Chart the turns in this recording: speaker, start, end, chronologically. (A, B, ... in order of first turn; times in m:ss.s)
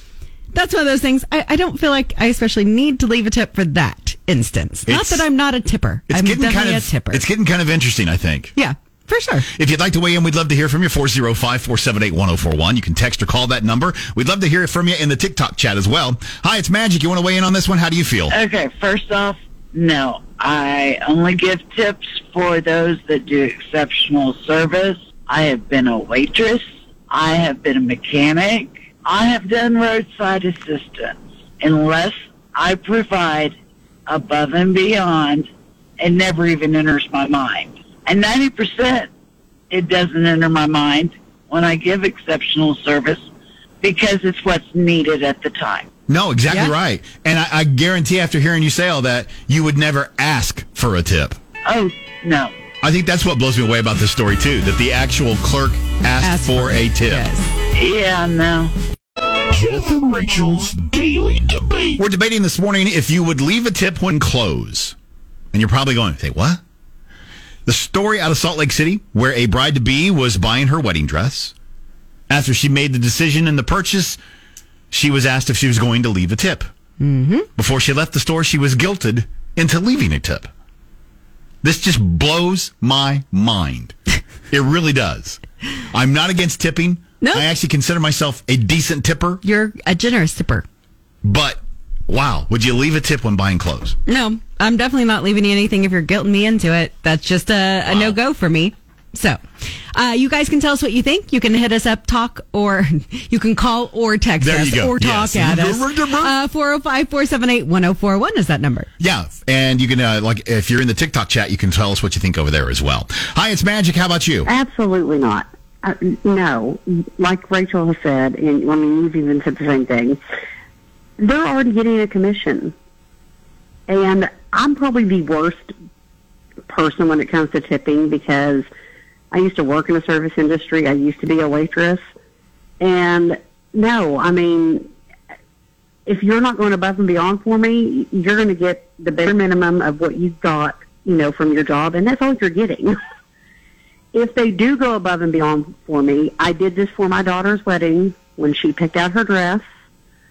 0:00.5-0:07.2 A
0:04.9-0:05.2 B
0:06.1-0:08.5 B
0:08.6-0:09.5 A
0:09.5-0:18.4 B
0:18.3-0:33.5 C
0:34.1-0:39.1 C
0:39.7-0:43.3 C
0:43.8-0:45.9 C
0:46.1-0:51.4 B
0:51.6-0:52.5 C
0:52.8-0:57.3 B
0:56.2-0:57.5 A
0:57.7-0:58.7 C
0:59.5-1:01.9 D
1:02.0-1:04.9 B
1:05.5-1:06.6 B
1:07.6-1:11.5 B
1:12.3-1:14.2 B
1:14.9-1:16.7 B
1:17.0-1:17.5 A
1:17.6-1:20.5 B
1:21.6-1:23.9 B
1:24.5-1:25.4 B
1:25.9-1:29.4 B
1:27.2-1:27.4 A
1:29.4-1:30.6 A
1:31.2-1:34.0 B
1:34.1-1:39.4 A
1:37.9-1:38.1 B
1:39.9-1:48.9 A
1:44.4-1:46.3 B
1:49.0-1:54.5 B
1:54.4-2:00.2 E
2:01.2-2:02.7 E
2:03.9-2:05.7 E
2:06.7-2:08.7 E
2:09.3-2:12.0 E
2:12.8-2:14.9 E
2:16.0-2:23.0 E
2:24.1-2:29.6 E